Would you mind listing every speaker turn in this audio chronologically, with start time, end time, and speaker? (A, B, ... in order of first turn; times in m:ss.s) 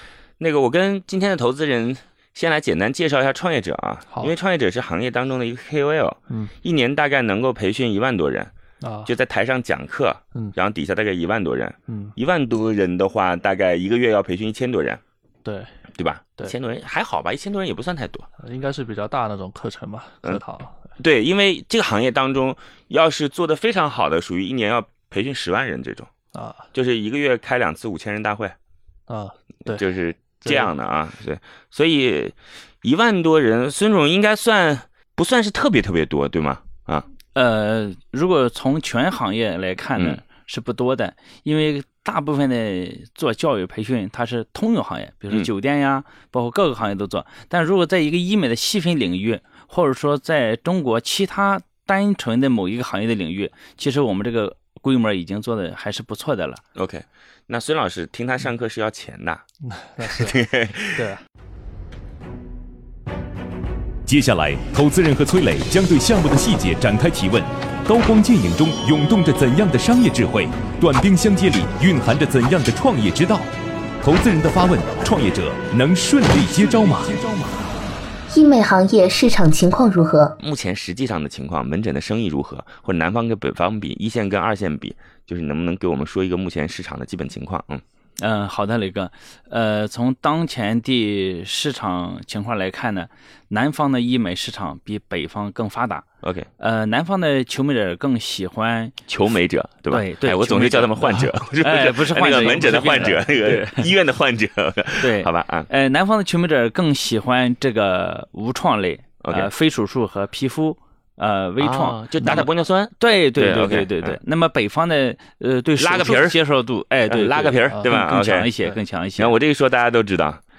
0:00.4-0:08.5 A
0:08.8-0:09.1 B
0:09.0-0:15.0 A
0:11.9-0:12.1 B
0:15.4-0:15.7 B
0:16.0-0:18.3 A
0:18.4-0:20.9 B
0:21.0-0:26.1 A
0:26.3-0:26.7 B
0:26.7-0:28.6 A
0:29.1-0:29.8 B
0:29.7-0:37.1 A
0:30.4-0:30.7 B
0:37.4-0:56.6 C
0:56.8-0:59.4 A
0:59.7-1:00.4 B
1:00.0-1:01.1 A
1:01.0-1:01.2 B
1:04.1-1:13.5 D
1:14.0-1:17.2 D
1:18.3-1:20.4 E
1:20.4-1:27.8 A
1:28.2-1:36.0 C
1:36.2-1:36.5 A
1:36.6-1:39.0 C
1:39.1-1:45.7 A
1:39.9-1:43.9 C
1:45.0-1:59.3 C
1:49.2-1:49.5 A
1:51.6-1:54.2 A
1:55.8-1:56.4 A
1:57.1-1:58.5 A
1:59.2-2:00.4 A